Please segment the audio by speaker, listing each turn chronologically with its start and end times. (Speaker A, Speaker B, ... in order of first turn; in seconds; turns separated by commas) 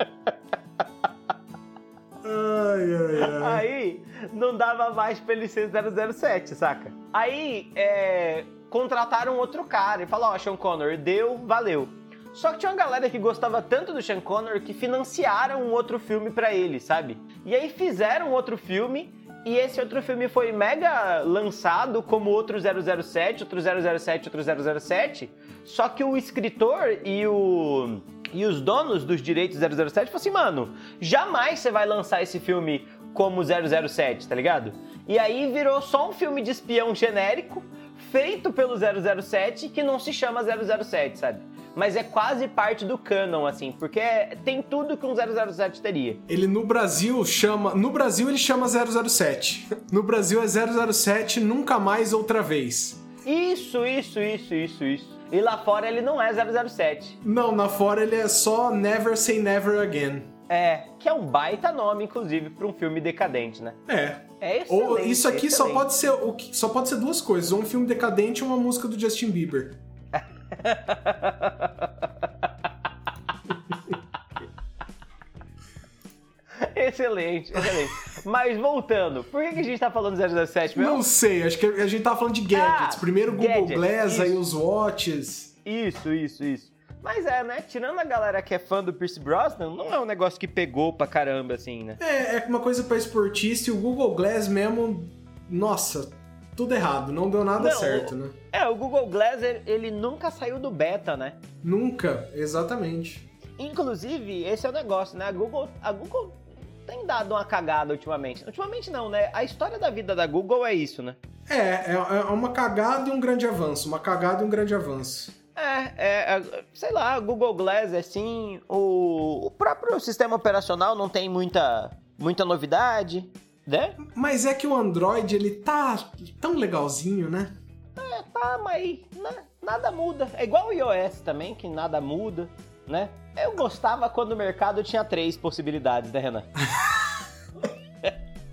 Speaker A: 2.2-3.6, Speaker B: 3.2-46.2, Speaker A: 46.3-53.0, Speaker B: 53.2-57.2, Speaker A: 57.2-60.3, Speaker B: 60.5-63.8, Speaker A: 63.9-69.8, Speaker B: 64.4-65.8, Speaker B: 70.1-72.0, Speaker B: 76.6-81.0, Speaker A: 80.7-85.5, Speaker B: 82.5-84.4, Speaker B: 85.6-92.0, Speaker A: 92.0-98.3, Speaker B: 97.6-101.4, Speaker A: 101.6-103.2, Speaker B: 103.6-111.2, Speaker A: 111.5-115.3, Speaker B: 115.5-124.0, Speaker A: 124.0-127.6, Speaker B: 128.0-136.5